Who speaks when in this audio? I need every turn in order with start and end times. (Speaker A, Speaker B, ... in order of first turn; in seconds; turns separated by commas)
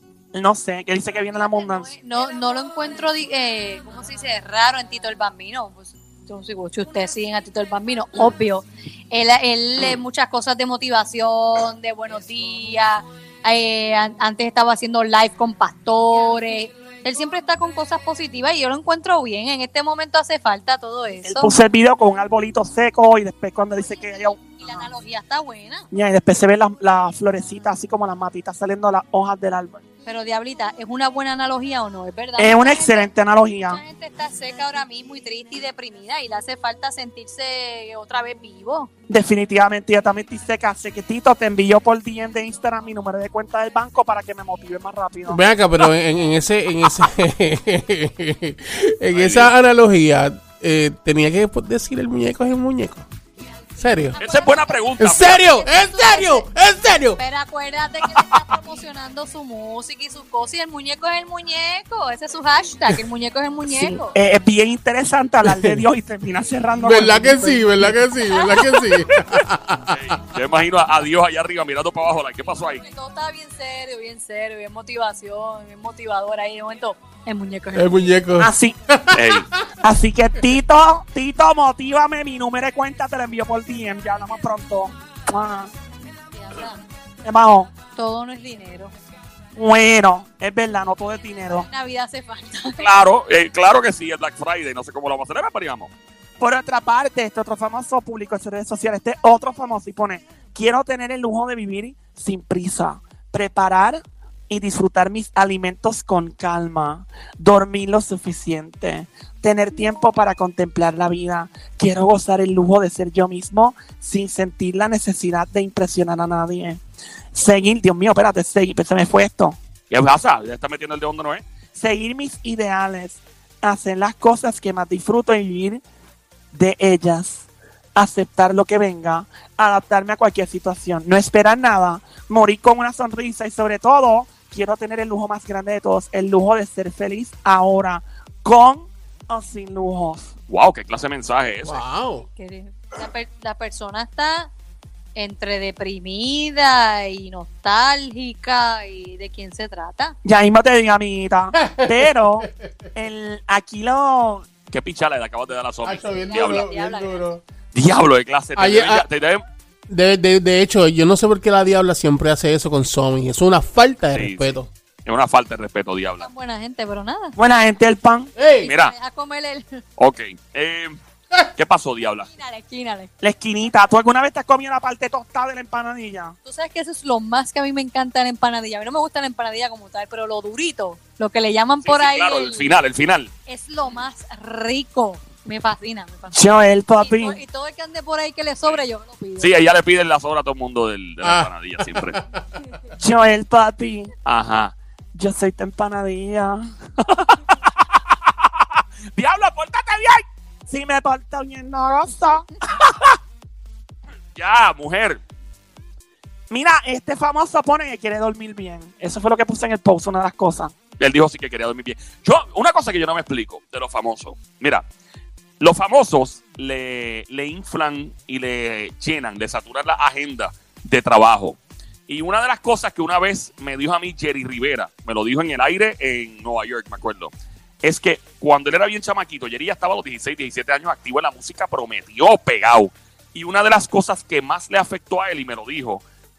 Speaker A: 0.3-1.9, Speaker B: 1.4-21.5, Speaker A: 21.2-24.9, Speaker B: 23.8-25.9, Speaker A: 25.9-29.8, Speaker B: 30.1-33.1, Speaker A: 32.4-33.8, Speaker B: 33.7-38.9, Speaker A: 39.1-45.4, Speaker C: 45.3-53.1, Speaker D: 49.1-49.5, Speaker C: 53.8-54.2, Speaker B: 54.1-56.5, Speaker D: 54.2-55.4, Speaker C: 55.0-57.2, Speaker B: 57.2-64.2, Speaker A: 63.7-68.0, Speaker C: 65.4-65.8, Speaker C: 66.8-70.2, Speaker B: 68.3-68.6, Speaker D: 69.9-72.8, Speaker B: 72.5-78.1, Speaker C: 77.7-79.4, Speaker A: 78.4-78.8, Speaker D: 79.1-79.5, Speaker A: 79.8-85.7, Speaker B: 86.3-86.8, Speaker A: 87.2-87.7, Speaker B: 87.9-88.9, Speaker A: 89.6-91.7, Speaker B: 91.5-92.9, Speaker D: 92.8-95.9, Speaker A: 96.4-116.8, Speaker A: 117.3-119.6, Speaker D: 119.9-121.4, Speaker A: 121.8-125.8, Speaker A: 126.5-140.3, Speaker D: 140.5-141.8, Speaker C: 141.6-142.2, Speaker B: 142.2-144.5, Speaker B: 145.2-150.2, Speaker A: 150.2-154.5, Speaker C: 151.6-152.5, Speaker D: 154.7-156.7, Speaker C: 155.8-157.4, Speaker B: 156.1-157.3, Speaker D: 157.7-159.4, Speaker C: 158.6-159.1, Speaker C: 159.9-164.7, Speaker D: 164.1-166.3, Speaker B: 166.2-167.4, Speaker A: 167.4-168.3, Speaker C: 168.4-168.7, Speaker B: 168.6-169.8, Speaker D: 168.7-168.9, Speaker D: 170.0-171.0, Speaker D: 171.6-172.3, Speaker B: 172.2-173.1, Speaker A: 173.2-176.4, Speaker B: 176.4-182.7, Speaker D: 181.8-183.3, Speaker B: 183.5-186.4, Speaker A: 186.3-187.4, Speaker B: 187.0-189.5, Speaker D: 189.4-192.2, Speaker C: 191.2-192.4, Speaker A: 193.0-194.1, Speaker D: 194.2-194.8, Speaker A: 195.1-196.7, Speaker D: 199.2-199.9, Speaker A: 199.8-203.2, Speaker D: 204.4-205.2, Speaker A: 206.5-210.7, Speaker D: 211.0-214.8, Speaker D: 215.6-227.3, Speaker D: 227.8-236.0